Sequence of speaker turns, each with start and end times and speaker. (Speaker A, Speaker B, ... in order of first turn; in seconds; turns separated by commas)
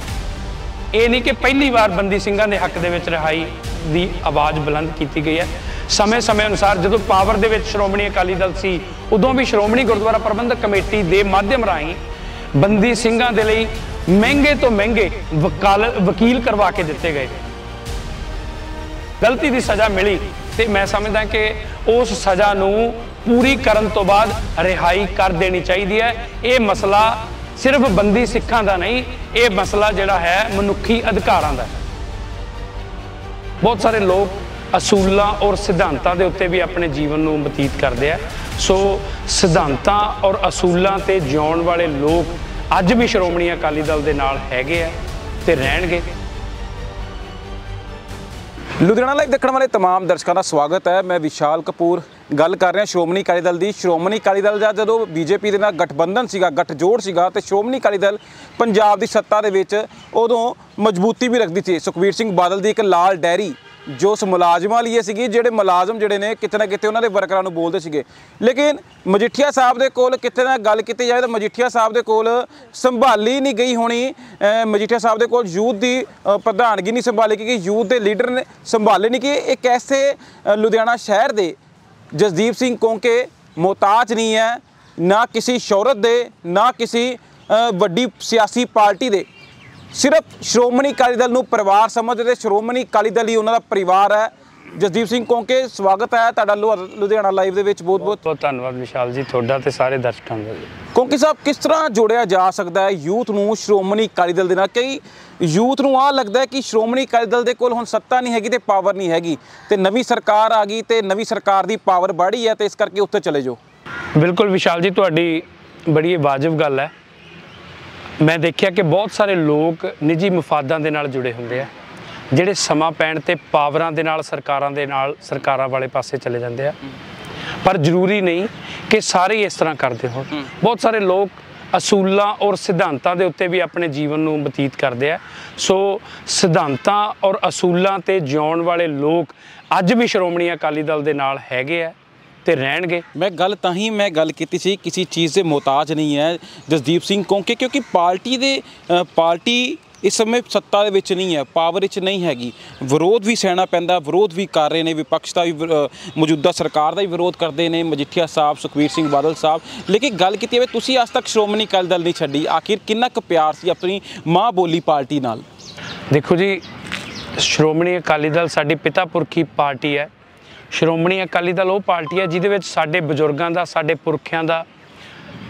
Speaker A: 0.9-12.0, Speaker A: 12.6-17.3, Speaker A: 19.2-31.7, Speaker A: 33.6-46.1, Speaker B: 48.8-81.6, Speaker B: 82.1-89.3, Speaker B: 89.9-98.2, Speaker A: 98.0-100.7, Speaker B: 101.0-113.6, Speaker A: 114.2-116.9, Speaker A: 118.2-121.7, Speaker A: 122.3-126.8, Speaker A: 127.6-143.1, Speaker B: 143.2-165.4, Speaker A: 166.1-166.6, Speaker A: 167.4-170.1, Speaker A: 170.7-174.7